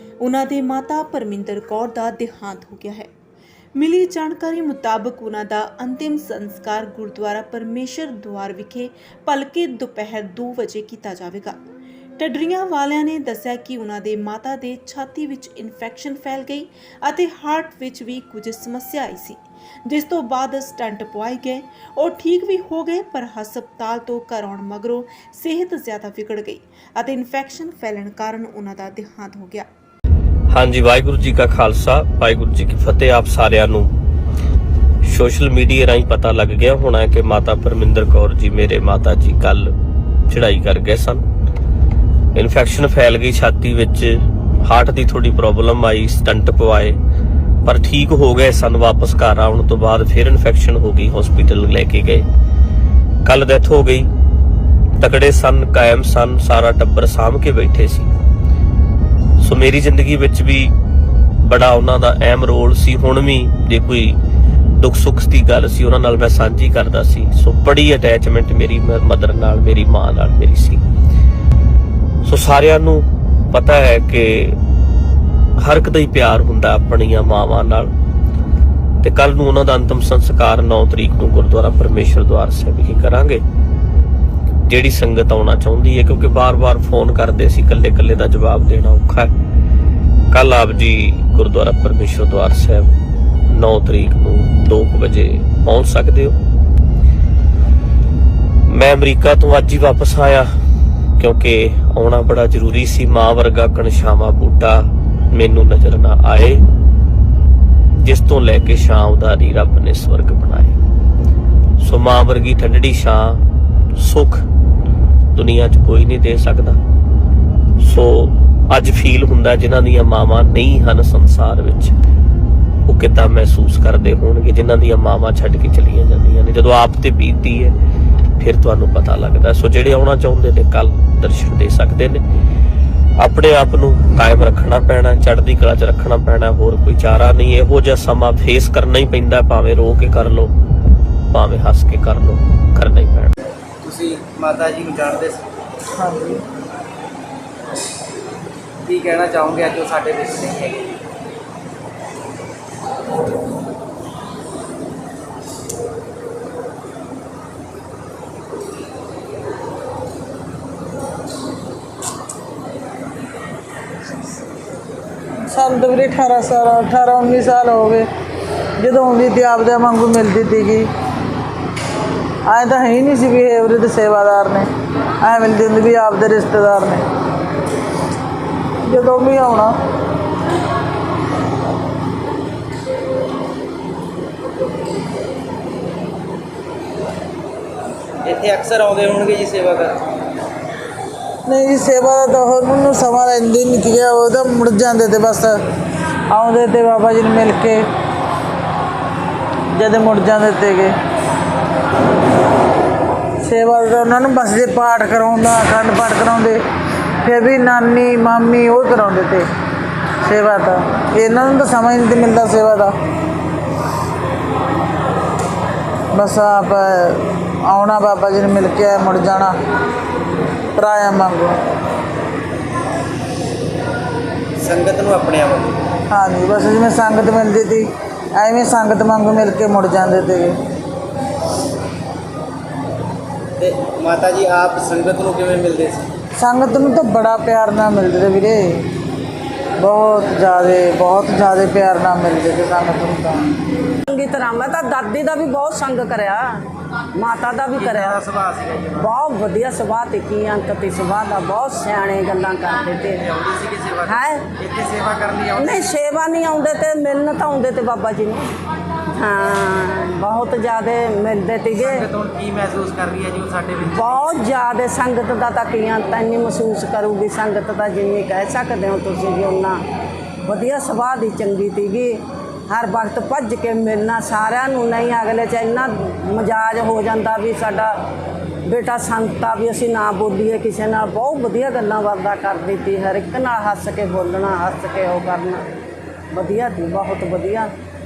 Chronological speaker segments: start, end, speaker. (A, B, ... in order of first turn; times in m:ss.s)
0:00.2-0:03.1 A
0:03.7-0:11.6 A
0:12.2-0:29.7 A
0:30.5-0:33.9 B
0:35.0-0:39.7 B
0:40.3-0:41.2 B
0:42.3-0:47.0 B
0:47.6-0:52.2 B
0:53.2-0:54.1 B
0:55.0-0:58.1 B
0:59.4-1:00.7 B
1:01.4-1:04.2 B
1:04.8-1:10.8 B
1:12.2-1:14.6 B
1:15.6-1:17.9 B
1:19.0-1:23.4 B
1:24.7-1:29.3 B
1:30.3-1:32.9 B
1:33.5-1:36.4 B
1:38.7-1:40.5 B
1:41.2-1:46.6 B
1:48.0-1:50.8 B
1:51.8-1:53.4 B
1:54.0-1:54.4 B
1:55.3-1:56.8 B
1:57.8-2:01.9 B
2:02.9-2:07.8 B
2:08.4-2:12.2 B
2:13.2-2:20.5 B
2:21.3-2:23.3 B
2:23.8-2:25.5 C
2:26.0-2:26.4 D
2:28.9-2:30.9 C
2:45.4-2:48.1 D
2:48.8-2:50.9 D
2:52.4-2:54.7 D
2:55.2-2:57.0 D
2:58.8-2:59.8 D
3:08.2-3:10.0 C
3:11.4-3:15.6 D
3:16.3-3:17.8 D
3:19.7-3:20.9 D
3:23.4-3:26.6 D
3:27.2-3:29.4 D
3:30.2-3:32.9 D
3:36.1-3:39.6 D
3:40.8-3:41.6 D
3:44.6-3:45.8 C
3:46.1-3:50.6 D
3:53.6-3:56.1 C
3:56.4-3:58.9 D
3:59.8-4:03.5 D
4:04.1-4:06.6 E
4:07.1-4:08.2 E
4:07.8-4:09.1 C
4:08.9-4:13.3 E
4:13.2-4:15.8 C
4:14.0-4:14.5 E
4:15.5-4:18.5 E
4:19.1-4:22.1 E
4:21.8-4:24.3 C
4:23.9-4:29.8 E
4:30.4-4:38.0 E
4:38.7-4:45.6 E
4:46.3-4:47.7 E